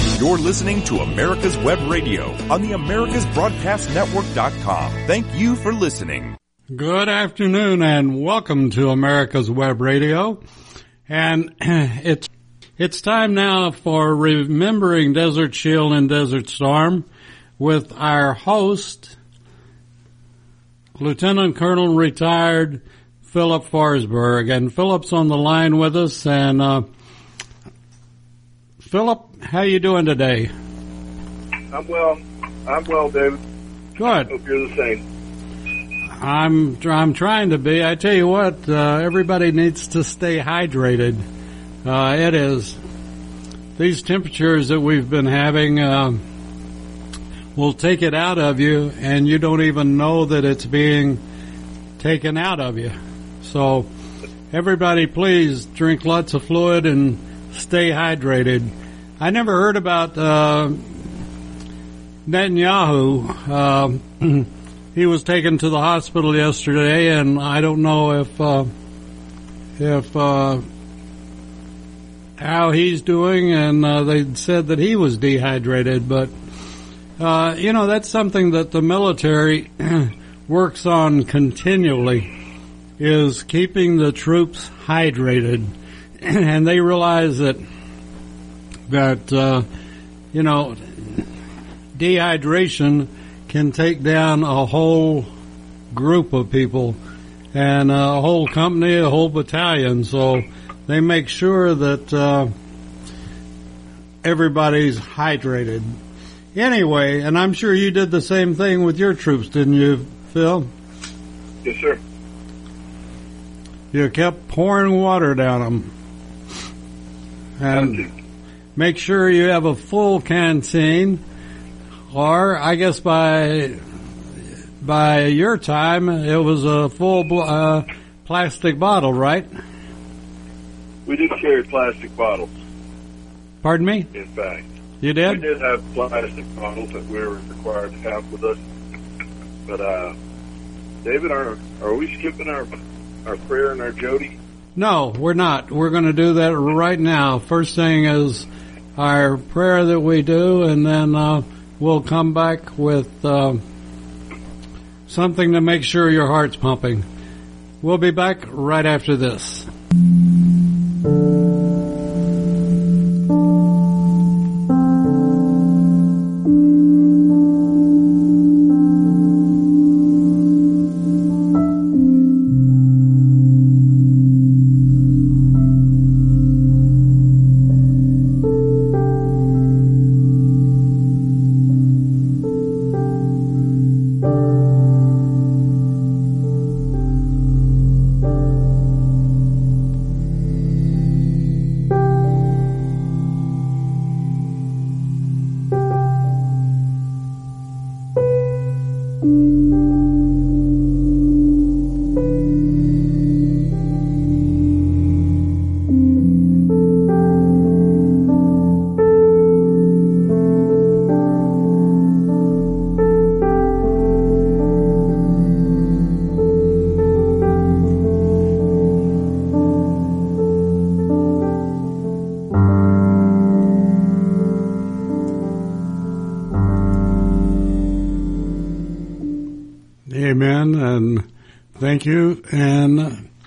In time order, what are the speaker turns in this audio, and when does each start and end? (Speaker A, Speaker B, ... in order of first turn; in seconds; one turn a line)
Speaker A: 0.1-6.4
Speaker B: 6.7-10.4
Speaker B: 11.1-17.1
Speaker B: 17.6-19.2
Speaker B: 20.9-26.9
Speaker B: 28.8-30.5
Speaker C: 31.7-33.4
Speaker B: 34.0-34.3
Speaker C: 34.3-35.0
Speaker B: 36.2-41.2
Speaker B: 41.8-42.8
Speaker B: 43.8-46.2
Speaker B: 47.6-51.2
Speaker B: 52.0-53.9
Speaker B: 54.5-61.1
Speaker B: 62.3-68.7
Speaker B: 69.8-70.6
Speaker B: 72.4-76.3
Speaker B: 77.2-82.3
Speaker B: 83.0-87.6
Speaker B: 88.9-89.7
Speaker B: 90.3-91.3
Speaker B: 92.0-95.3
Speaker B: 95.9-97.0
Speaker B: 97.5-102.5
Speaker B: 104.2-106.0
Speaker B: 106.5-110.7
Speaker C: 111.6-112.0
Speaker B: 113.9-115.9
Speaker B: 117.6-118.1
Speaker C: 117.7-118.1
Speaker B: 118.8-121.2
Speaker B: 122.1-123.8
Speaker B: 124.8-129.5
Speaker C: 131.1-132.6
Speaker B: 133.6-134.1
Speaker C: 134.1-134.7
Speaker B: 135.0-135.4
Speaker C: 135.2-138.6
Speaker C: 139.7-140.2
Speaker C: 141.0-142.7
Speaker C: 143.2-144.4
Speaker B: 144.8-153.6
Speaker B: 155.1-157.1
Speaker B: 157.8-159.7
Speaker B: 230.1-233.2